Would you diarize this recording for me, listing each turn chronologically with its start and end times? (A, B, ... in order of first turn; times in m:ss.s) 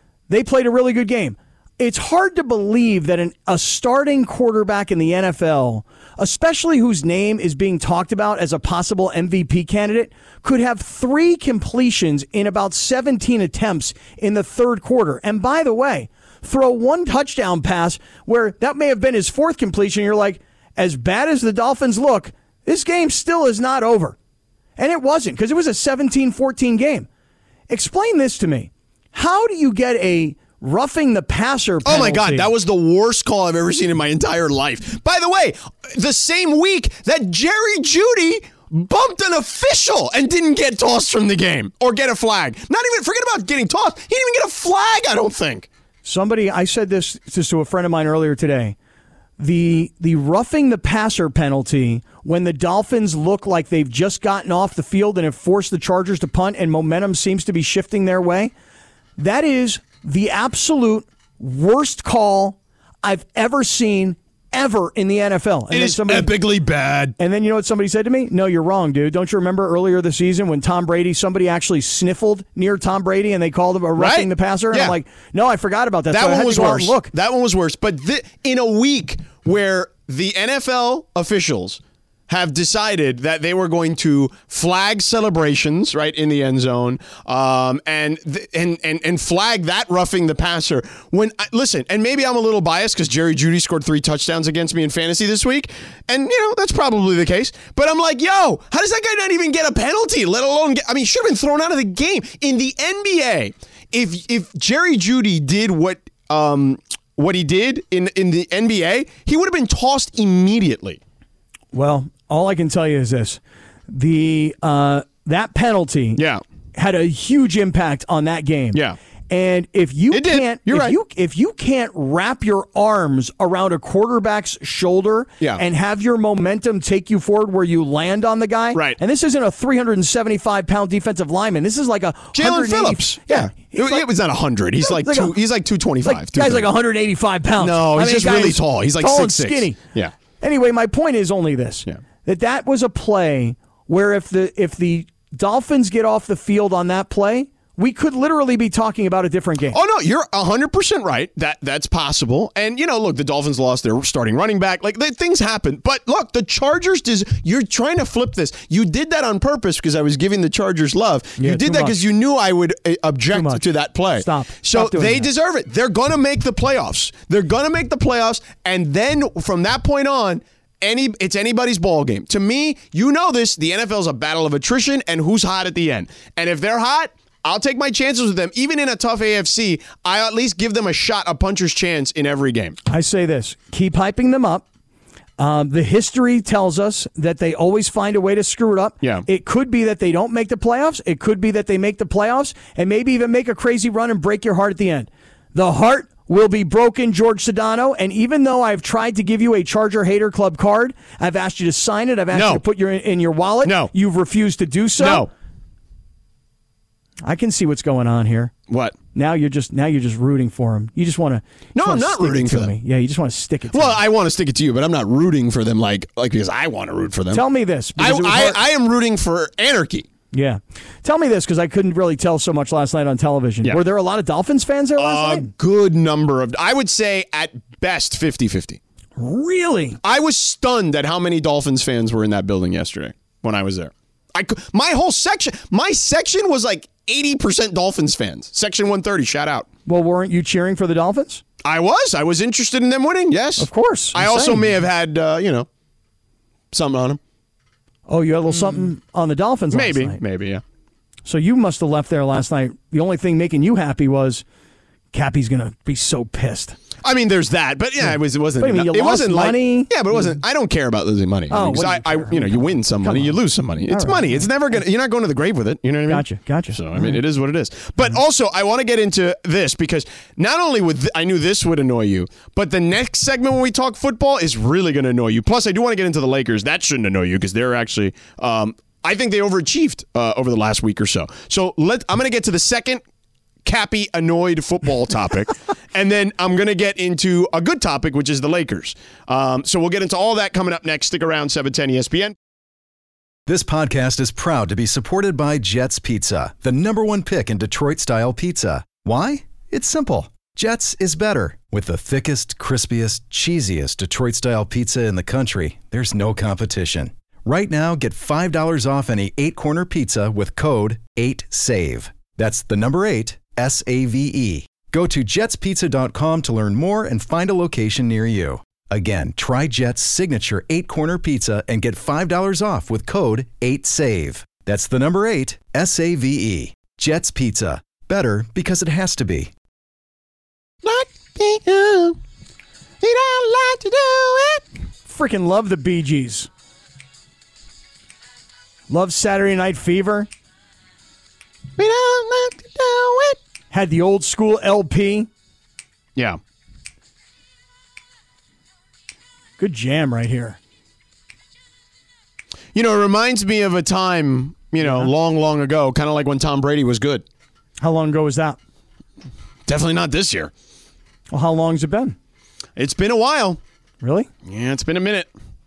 0:00.3-0:24.2 A
0:24.8-0:27.1 A
0:27.7-0:32.5 A
0:31.8-0:45.7 B
0:46.0-0:48.8 A
0:49.4-0:58.5 A
0:59.2-1:06.4 A
1:05.7-1:07.2 B
1:07.2-1:17.1 A
1:14.0-1:15.0 B
1:16.1-1:51.0 B
1:51.7-1:56.2 A
1:56.2-1:56.4 B
1:56.8-2:14.0 A
2:00.1-2:01.0 B
2:08.7-2:09.0 B
2:12.3-2:16.7 B
2:14.8-2:15.4 A
2:16.0-2:19.8 A
2:17.6-2:20.1 B
2:20.4-2:29.8 A
2:29.7-3:02.8 B
2:41.4-2:42.0 A
2:43.3-2:45.3 A
3:02.9-3:04.6 A
3:05.4-3:25.3 A
3:09.0-3:09.3 B
3:22.3-3:22.6 B
3:23.6-3:23.9 B
3:25.0-3:25.3 B
3:27.2-3:28.5 A
3:28.7-3:29.0 B
3:29.1-3:34.0 A
3:31.8-3:32.8 B
3:33.7-3:37.4 B
3:37.3-3:38.6 A
3:38.0-3:40.1 B
3:40.3-3:45.5 A
3:45.0-3:48.8 B
3:49.2-3:50.0 A
3:50.0-3:59.7 B
3:59.9-4:01.4 A
4:01.6-4:05.7 B
4:03.6-4:04.7 A
4:06.7-4:07.2 B
4:08.1-4:10.2 A
4:09.7-4:10.6 B
4:11.2-4:14.4 A
4:15.1-4:16.8 A
4:17.0-4:43.0 B
4:18.0-4:20.4 A
4:21.5-4:24.5 A
4:26.1-4:27.2 A
4:43.6-4:52.3 B
4:53.5-5:29.5 C
5:30.8-5:32.2 B
5:33.0-5:34.6 B
5:35.1-5:36.5 A
5:38.9-5:40.3 A
5:41.8-5:43.4 B
5:43.7-5:45.3 A
5:49.6-5:50.6 A
5:52.8-5:57.2 B
5:54.8-5:55.1 A
5:57.8-5:58.6 A
5:59.7-6:00.5 B
6:01.3-6:02.2 A
6:02.8-6:03.6 B
6:04.0-6:04.3 A
6:04.4-6:05.3 B